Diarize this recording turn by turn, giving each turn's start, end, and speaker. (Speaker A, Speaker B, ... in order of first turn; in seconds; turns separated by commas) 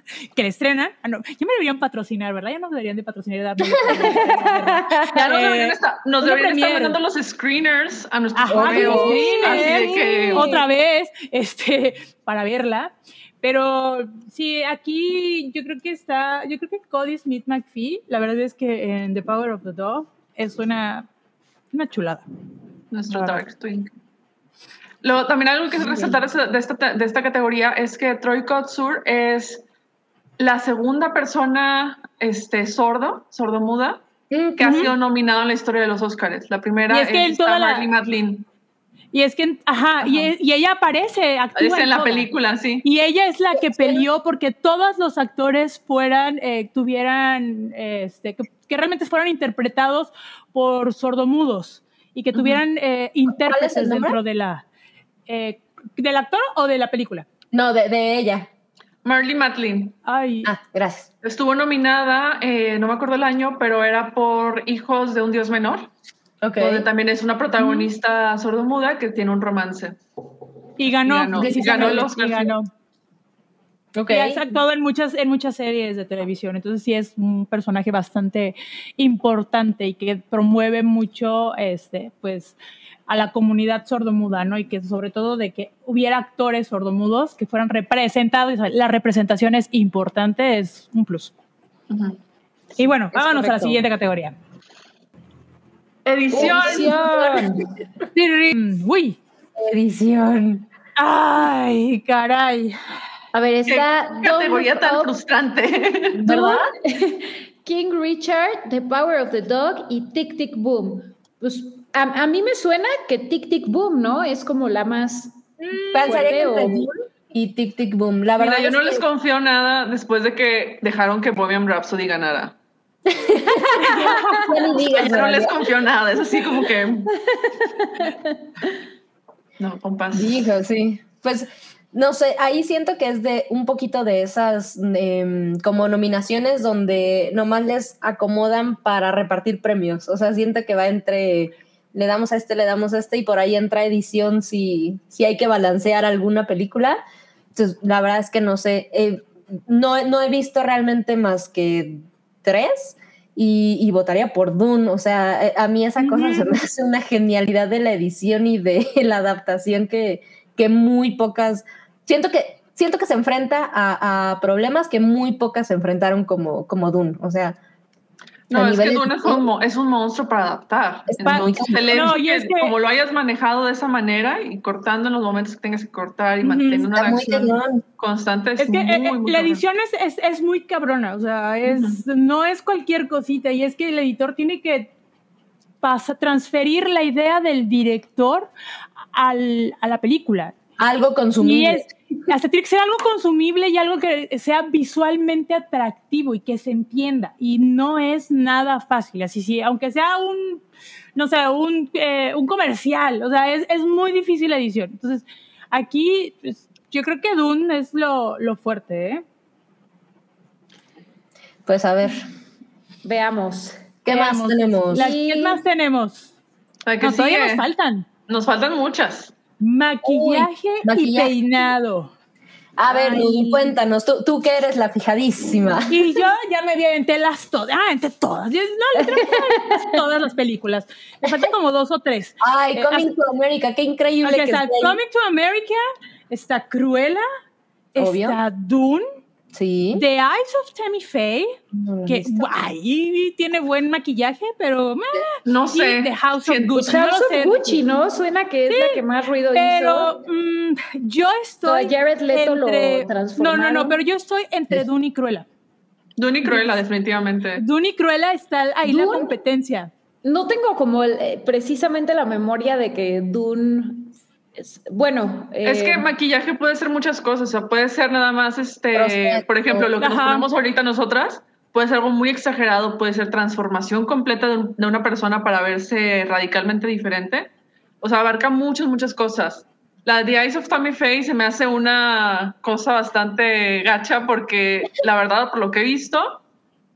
Speaker A: 0.3-7.0, Speaker B: 4.0-5.1, Speaker C: 5.1-10.5, Speaker A: 8.3-21.1, Speaker D: 8.5-9.3, Speaker B: 8.6-10.6, Speaker A: 21.7-22.2, Speaker C: 22.9-23.9, Speaker A: 23.1-23.4, Speaker C: 25.0-29.6, Speaker D: 25.8-26.2, Speaker C: 30.4-34.0, Speaker D: 34.3-34.9, Speaker C: 34.6-38.5, Speaker A: 34.6-34.9, Speaker A: 36.9-37.9, Speaker A: 39.1-42.3, Speaker C: 41.5-42.8, Speaker A: 42.8-54.6, Speaker D: 43.6-44.0, Speaker D: 53.3-54.2, Speaker A: 55.3-57.2, Speaker D: 57.5-58.5, Speaker C: 59.0-60.0, Speaker A: 60.0-60.5, Speaker D: 60.4-61.1, Speaker C: 61.2-65.9, Speaker D: 66.4-66.9, Speaker C: 66.6-70.0, Speaker A: 67.6-67.9, Speaker A: 70.8-72.7, Speaker C: 71.0-72.5, Speaker D: 71.4-72.1, Speaker D: 73.9-74.6, Speaker A: 74.1-82.5, Speaker A: 83.1-91.3, Speaker C: 91.9-92.2, Speaker A: 92.8-94.3, Speaker D: 93.2-93.8, Speaker C: 96.0-97.2, Speaker B: 96.3-97.7, Speaker D: 96.3-97.5, Speaker A: 98.1-99.2, Speaker D: 99.5-100.7, Speaker A: 101.0-102.8, Speaker B: 103.3-105.1, Speaker C: 103.7-106.2, Speaker D: 106.2-106.7, Speaker B: 106.2-116.9, Speaker A: 115.7-116.1, Speaker D: 115.9-119.0, Speaker C: 118.4-122.5, Speaker D: 123.1-123.8, Speaker B: 123.5-124.5, Speaker A: 123.8-124.4, Speaker D: 124.4-125.6, Speaker C: 124.7-127.1, Speaker B: 127.3-128.3, Speaker C: 129.6-130.5, Speaker D: 130.1-147.0, Speaker D: 147.5-167.6, Speaker A: 156.0-156.6, Speaker C: 168.5-179.6, Speaker D: 168.5-169.5, Speaker D: 171.1-172.0, Speaker A: 171.2-172.7, Speaker A: 176.4-176.9, Speaker D: 176.9-177.8, Speaker A: 178.6-184.9, Speaker C: 181.7-182.0, Speaker A: 185.8-188.5, Speaker A: 189.1-190.5, Speaker D: 190.8-191.9, Speaker A: 191.4-200.6, Speaker A: 201.2-209.2, Speaker D: 211.7-212.2, Speaker B: 213.0-213.8, Speaker D: 214.0-215.1, Speaker A: 214.1-216.3, Speaker B: 214.9-215.6, Speaker C: 216.8-217.7, Speaker A: 217.0-218.1, Speaker C: 218.3-219.3, Speaker A: 219.6-222.1, Speaker D: 220.0-221.3, Speaker D: 222.8-225.9, Speaker B: 222.9-223.7, Speaker A: 225.9-233.1, Speaker B: 229.1-229.8, Speaker D: 232.4-235.0, Speaker A: 234.2-237.2, Speaker A: 237.9-239.1, Speaker D: 237.9-238.4, Speaker D: 239.5-240.0, Speaker A: 239.9-247.8, Speaker D: 241.7-242.5, Speaker C: 245.4-247.0, Speaker B: 246.8-250.2, Speaker A: 248.7-249.0, Speaker A: 249.5-255.4, Speaker B: 251.6-254.0, Speaker C: 256.2-257.6, Speaker A: 256.4-256.8, Speaker A: 257.6-259.9, Speaker B: 258.8-259.3, Speaker B: 260.2-266.1, Speaker C: 265.6-286.4, Speaker D: 268.9-269.9, Speaker A: 270.0-270.5